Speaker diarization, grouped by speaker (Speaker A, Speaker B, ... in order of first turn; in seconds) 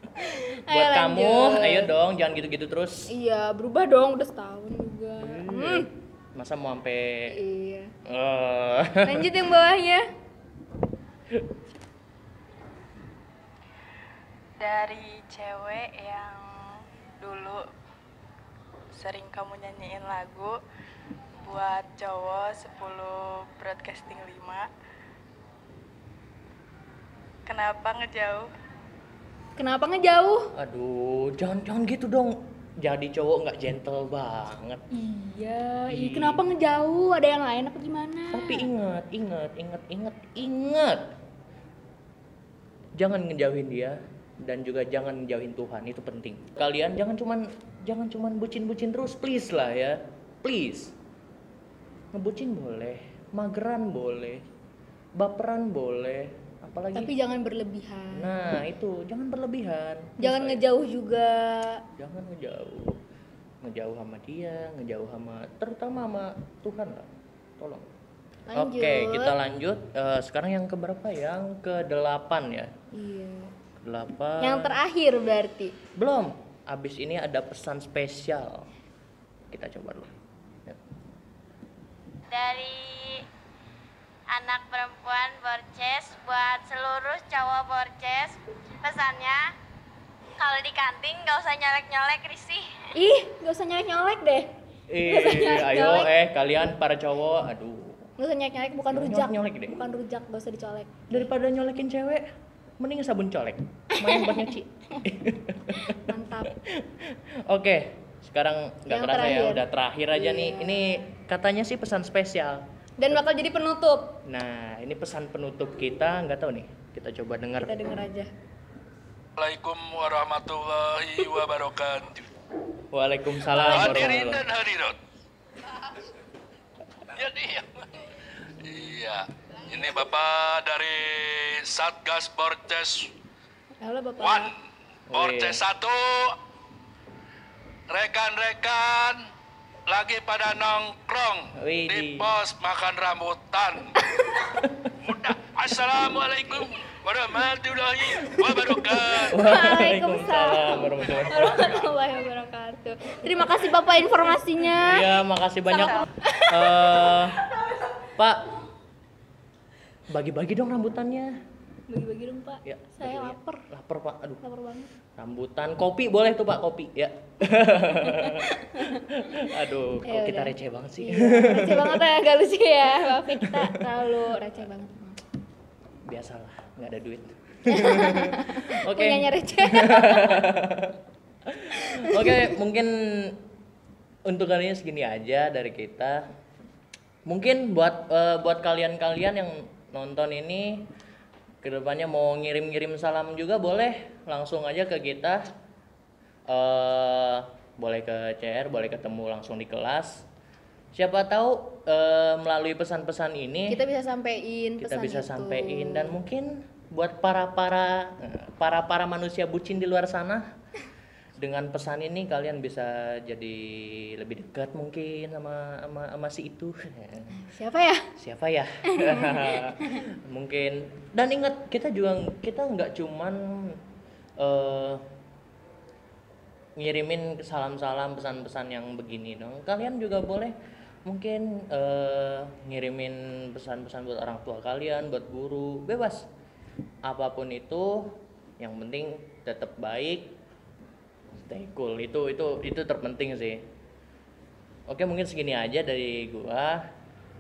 Speaker A: 0.3-1.9, 3.1-5.9, 7.3-7.9, 9.0-10.0, 29.6-30.5, 34.9-38.7, 56.9-58.3, 60.2-61.8, 68.5-69.3, 72.9-73.5, 74.4-75.7, 93.0-94.5, 95.0-96.1, 98.2-101.2, 104.0-104.5, 105.8-106.5, 108.9-110.8, 113.0-114.1, 117.6-118.3, 133.8-134.5, 149.2-155.1, 155.7-157.1, 161.9-163.6, 164.4-164.9, 168.2-168.9, 170.1-175.2, 177.7-180.5, 182.1-182.5, 203.7-206.2, 217.4-218.1, 218.9-220.0
Speaker B: 0.7-3.1, 5.2-7.4, 8.0-9.3, 30.6-34.8, 35.9-36.4, 38.3-41.0, 43.0-50.9, 52.1-54.4, 55.2-57.1, 58.1-60.6, 62.0-63.0, 63.6-67.1, 67.6-67.9, 68.5-72.7, 73.8-74.8, 76.0-78.7, 79.5-80.1, 94.9-98.1, 98.9-99.8, 101.1-102.3, 102.8-113.2, 114.2-117.8, 122.9-124.5, 135.1-135.6, 141.5-142.3, 144.6-144.9, 149.2-151.5, 154.6-157.4, 158.2-158.4, 160.1-161.3, 162.6-164.4, 165.2-172.1, 173.1-173.5, 176.1-183.4, 184.3-186.2, 187.3-190.8, 191.6-195.5, 196.5-200.3, 200.9-203.8, 204.8-210.4, 211.4-217.4, 218.2-223.8, 224.4-225.0, 226.8-236.3, 237.1-240.3, 241.4-243.6, 244.9-246.8
Speaker C: 14.6-17.6, 18.9-20.6, 21.4-24.7, 27.4-28.5
Speaker D: 82.3-83.2, 84.3-89.5, 90.4-92.7
Speaker E: 119.4-122.3, 123.5-125.0, 127.1-127.9, 128.6-133.1, 134.2-134.5, 135.1-136.4, 137.9-139.2, 139.9-143.9, 145.0-149.3